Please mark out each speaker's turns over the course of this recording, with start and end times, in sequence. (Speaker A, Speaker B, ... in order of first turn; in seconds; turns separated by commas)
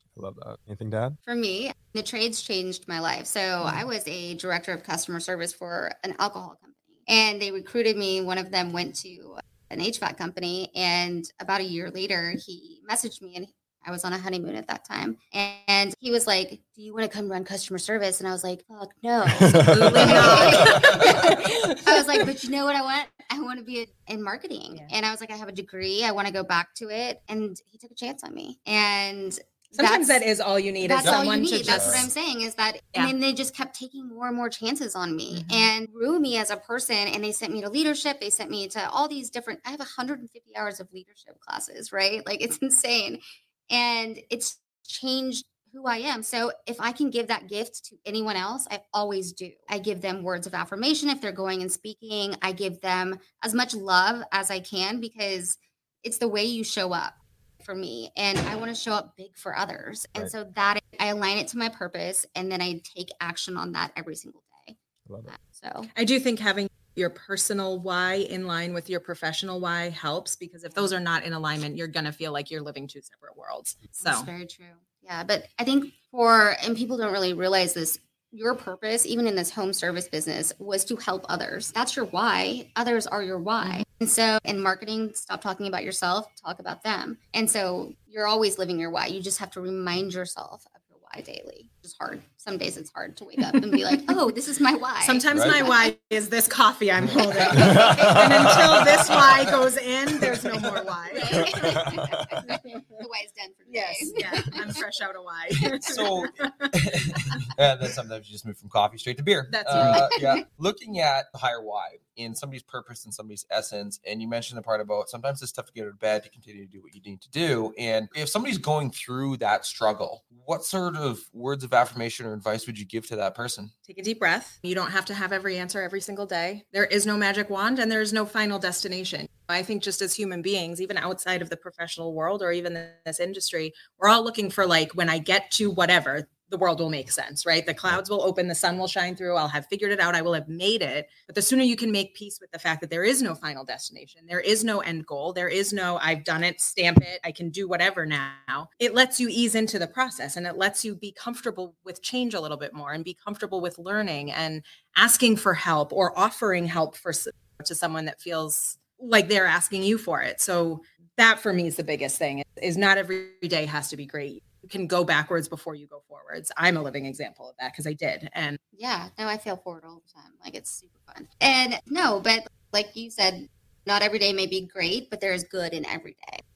Speaker A: 0.2-1.2, Speaker B: 1.2-30.2, Speaker A: 19.4-21.0, Speaker C: 19.5-22.2, Speaker C: 29.8-32.1, Speaker B: 30.8-64.8, Speaker D: 31.0-31.9, Speaker A: 31.6-32.1, Speaker C: 35.3-35.7, Speaker A: 65.1-65.3, Speaker B: 65.3-65.9, Speaker C: 66.0-74.3, Speaker B: 74.0-95.9, Speaker C: 95.0-102.0, Speaker D: 95.3-95.6, Speaker D: 97.1-97.7, Speaker A: 97.7-98.2, Speaker B: 97.8-98.2, Speaker D: 98.5-99.3, Speaker B: 101.1-104.8, Speaker A: 101.4-102.4, Speaker C: 102.5-102.8, Speaker C: 103.7-106.7, Speaker D: 105.6-123.7, Speaker C: 109.5-110.2, Speaker B: 109.7-110.4, Speaker C: 123.9-168.6, Speaker B: 168.8-176.4